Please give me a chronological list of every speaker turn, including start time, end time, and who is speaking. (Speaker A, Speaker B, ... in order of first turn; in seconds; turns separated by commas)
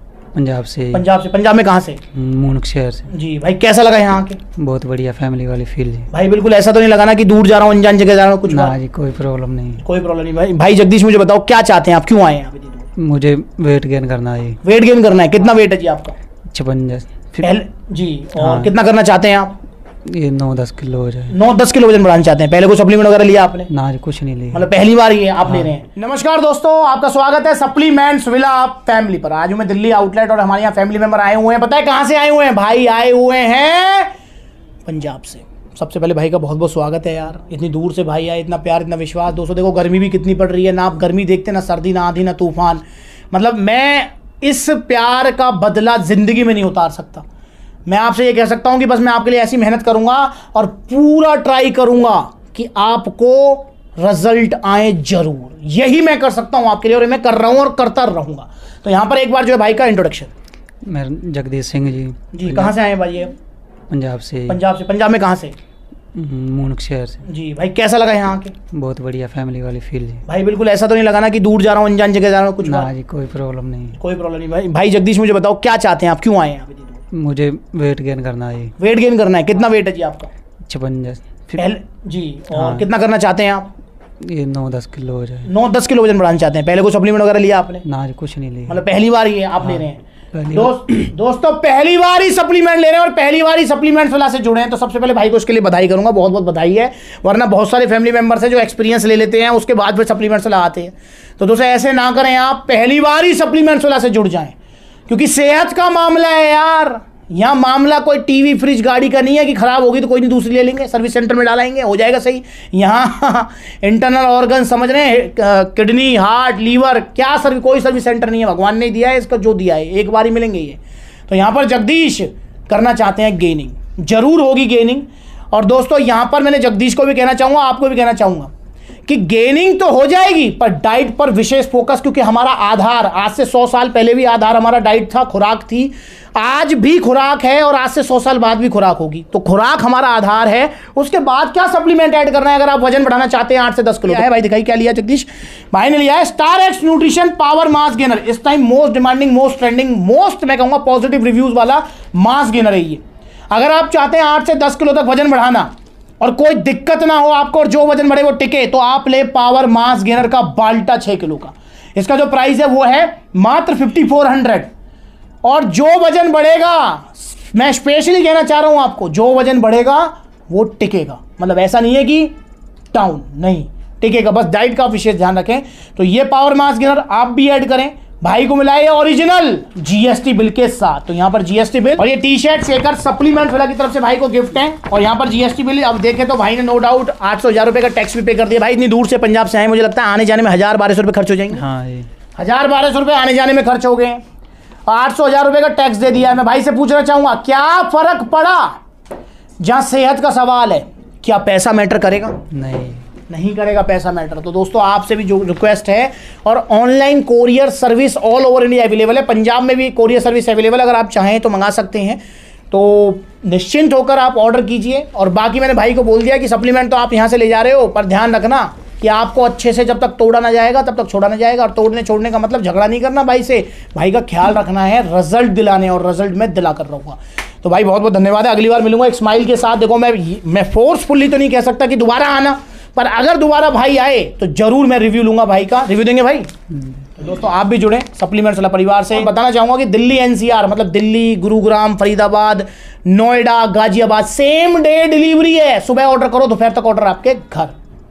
Speaker A: 0.3-1.0, Speaker B: 0.9-2.0, Speaker A: 2.1-3.1, Speaker B: 3.1-4.4, Speaker A: 4.6-6.1, Speaker B: 6.1-8.8, Speaker A: 8.5-9.8, Speaker B: 9.8-12.9, Speaker A: 13.0-14.6, Speaker B: 14.6-16.2, Speaker A: 16.5-17.5, Speaker B: 17.4-19.6, Speaker A: 18.4-18.7, Speaker A: 20.1-21.3, Speaker B: 21.3-23.7, Speaker A: 23.7-24.7, Speaker B: 24.5-34.1, Speaker A: 25.4-25.7, Speaker B: 34.9-47.2, Speaker B: 47.9-60.3, Speaker A: 60.8-62.7, Speaker B: 62.3-63.3, Speaker A: 63.9-64.6, Speaker B: 64.5-65.5, Speaker A: 66.1-67.2, Speaker B: 67.2-68.5, Speaker A: 68.7-70.2, Speaker B: 70.3-72.9, Speaker A: 72.6-74.0, Speaker B: 74.0-77.0, Speaker A: 77.1-78.7, Speaker B: 78.8-80.3, Speaker A: 80.7-81.6, Speaker B: 81.5-83.7, Speaker A: 82.5-82.8, Speaker A: 84.2-85.5, Speaker B: 85.4-87.8, Speaker A: 87.8-88.8, Speaker B: 88.7-90.0, Speaker A: 90.3-90.8, Speaker B: 90.5-104.5, Speaker B: 105.1-128.5, Speaker B: 129.1-164.7, Speaker B: 165.4-172.3, Speaker B: 172.9-191.6, Speaker A: 191.5-192.1, Speaker B: 192.4-194.2, Speaker B: 194.9-198.8, Speaker B: 199.6-202.4, Speaker A: 202.5-203.1, Speaker B: 203.3-236.5, Speaker B: 237.2-247.7